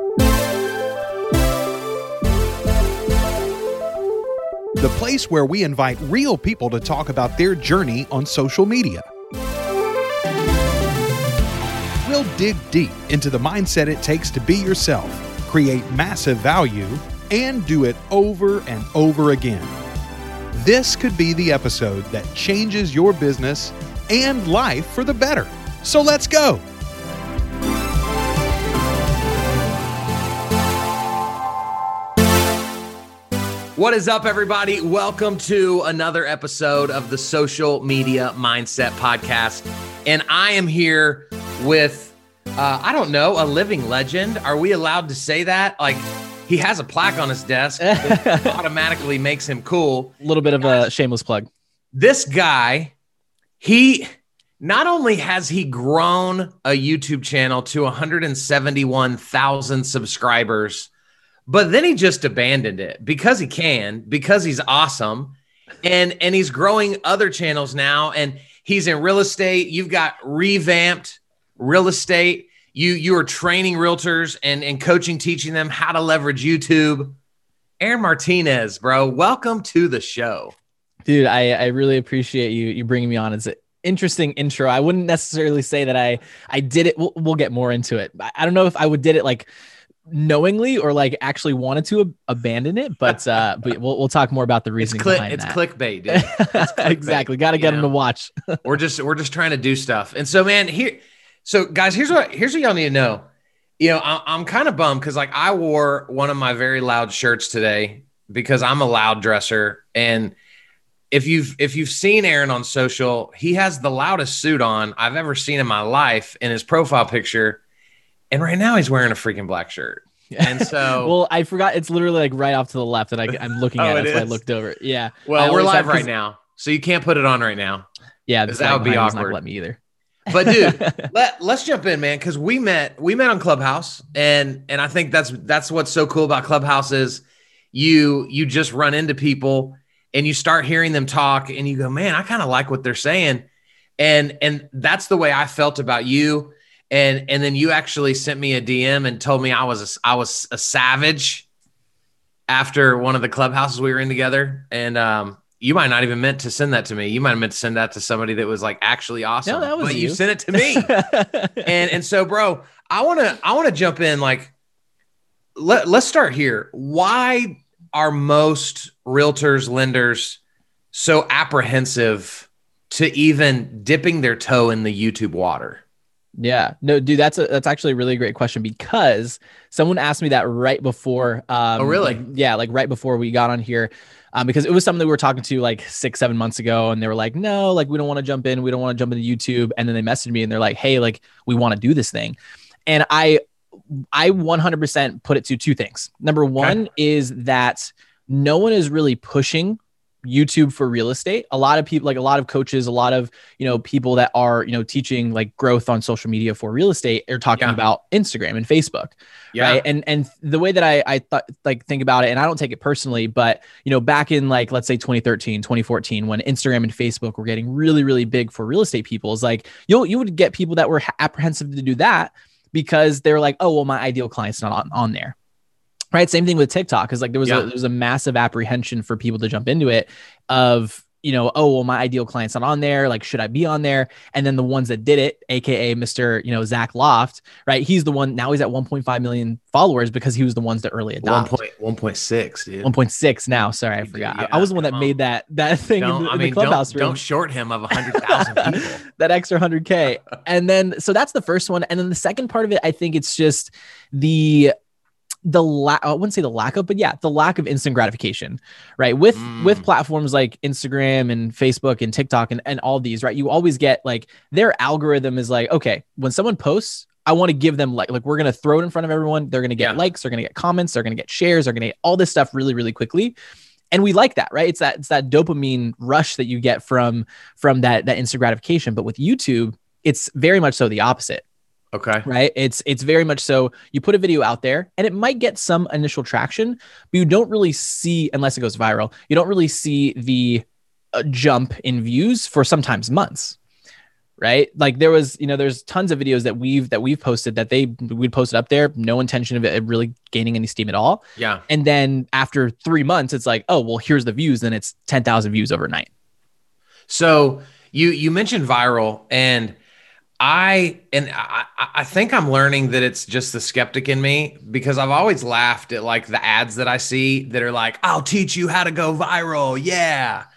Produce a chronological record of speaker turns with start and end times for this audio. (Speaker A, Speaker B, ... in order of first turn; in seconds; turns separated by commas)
Speaker A: 4.8-9.1, Speaker A: 12.0-19.8, Speaker A: 20.5-26.6, Speaker B: 33.8-50.8, Speaker C: 47.8-48.6, Speaker C: 50.2-51.5, Speaker B: 51.9-52.9, Speaker B: 53.6-60.9, Speaker B: 61.5-77.2, Speaker B: 77.8-80.5, Speaker C: 81.1-89.5, Speaker C: 90.1-98.6, Speaker B: 94.8-97.9, Speaker B: 98.6-103.2, Speaker B: 103.8-110.3, Speaker B: 111.1-117.6, Speaker B: 118.3-121.2, Speaker C: 120.3-126.1, Speaker B: 123.8-124.4, Speaker B: 125.3-127.9, Speaker C: 128.3-129.8, Speaker B: 128.5-129.4, Speaker B: 130.3-143.4, Speaker C: 130.3-131.1, Speaker B: 144.0-151.4, Speaker B: 152.5-160.9, Speaker C: 159.5-161.7, Speaker B: 161.6-164.5, Speaker B: 165.6-170.4, Speaker B: 170.9-175.8, Speaker C: 176.4-193.4, Speaker B: 181.8-182.2, Speaker C: 194.1-225.3, Speaker B: 209.5-209.8, Speaker C: 226.1-241.5, Speaker B: 241.2-242.9, Speaker C: 242.8-247.2, Speaker B: 244.0-245.1, Speaker B: 246.0-249.0, Speaker C: 248.0-254.7, Speaker C: 255.5-273.4, Speaker B: 259.4-259.9, Speaker C: 273.9-281.4, Speaker B: 281.9-282.3, Speaker C: 282.2-293.6, Speaker C: 294.4-306.1, Speaker B: 301.4-301.6, Speaker B: 307.1-309.8, Speaker B: 310.4-320.5